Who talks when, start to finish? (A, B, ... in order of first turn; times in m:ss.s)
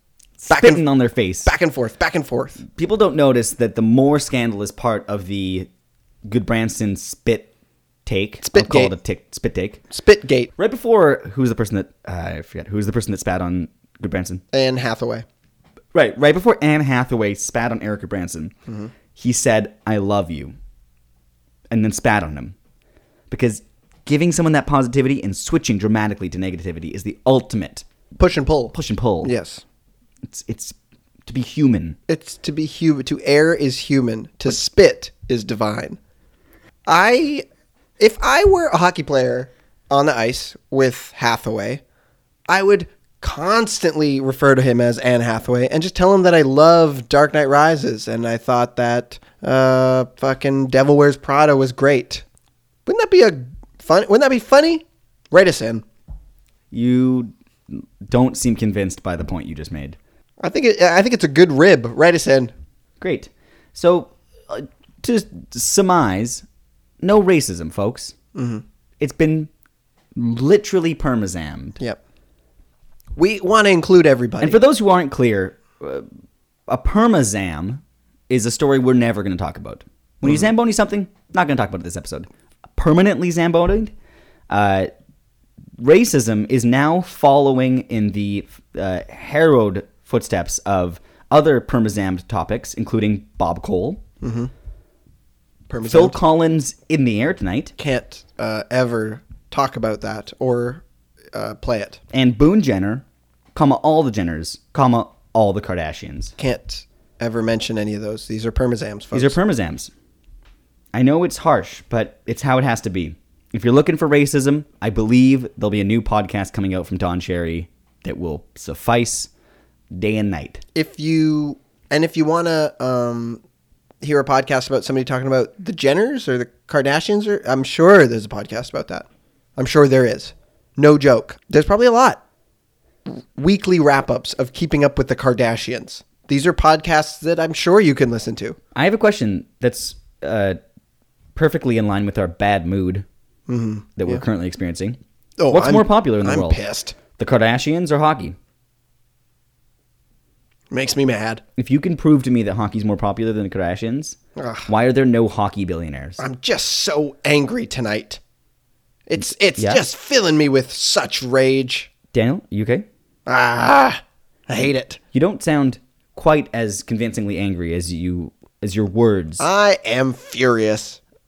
0:00.4-0:01.5 A
0:00.5-0:00.8 B
0:01.4-0:02.6 B
0:02.7-0:05.7 A
0:06.3-0:07.5 A
0:08.1-0:09.8 A
0:08.4-0:08.9 B
0:09.9-0:10.5 B
0:10.6-0:14.4 A
0:14.5-0:15.2 B
0:15.9-0:18.5 A
0:18.7-0:18.9 B
0:19.2-0:20.6 A
0:21.7-0:22.6 A
0:23.3-0:27.8 A
0:28.2-0:29.6 B
0:28.7-0:29.3 A
0:30.3-0:32.0 A
0:32.1-0:36.0 B
0:36.9-0:37.4 B
0:38.0-0:41.8 B
0:42.5-0:52.2 B
0:52.9-0:55.8 B
0:56.7-1:00.0 A
1:00.4-1:02.5 B
1:03.0-1:06.4 A
1:07.0-1:08.2 A
1:08.4-1:08.6 B
1:09.0-1:09.5 A
1:10.2-1:11.8 A
1:13.2-1:14.6 B
1:14.4-1:16.1 A
1:16.7-1:23.9 A
1:24.5-1:24.9 A
1:25.8-1:34.0 A
1:34.2-1:34.5 B
1:35.7-1:36.2 B
1:35.8-1:37.7 A
1:37.8-1:42.0 B
1:42.1-1:46.3 A
1:46.4-1:49.4 B
1:49.1-1:49.9 A
1:50.9-1:59.3 A
1:59.9-2:00.6 A
2:00.8-2:03.4 B
2:04.0-2:09.0 B
2:09.6-2:12.2 B
2:13.1-2:18.6 B
2:18.7-2:20.6 A
2:21.4-2:23.0 A
2:23.5-2:24.2 B
2:24.0-2:25.0 A
2:25.4-2:27.0 B
2:25.5-2:26.6 A
2:27.2-2:28.4 A
2:30.7-2:31.4 B
2:31.6-2:36.2 A
2:34.4-2:34.7 B
2:36.2-2:38.2 B
2:39.1-2:41.9 B
2:39.6-2:39.8 A
2:42.1-2:42.9 A
2:43.3-2:45.0 B
2:45.1-2:49.5 A
2:49.4-2:51.0 B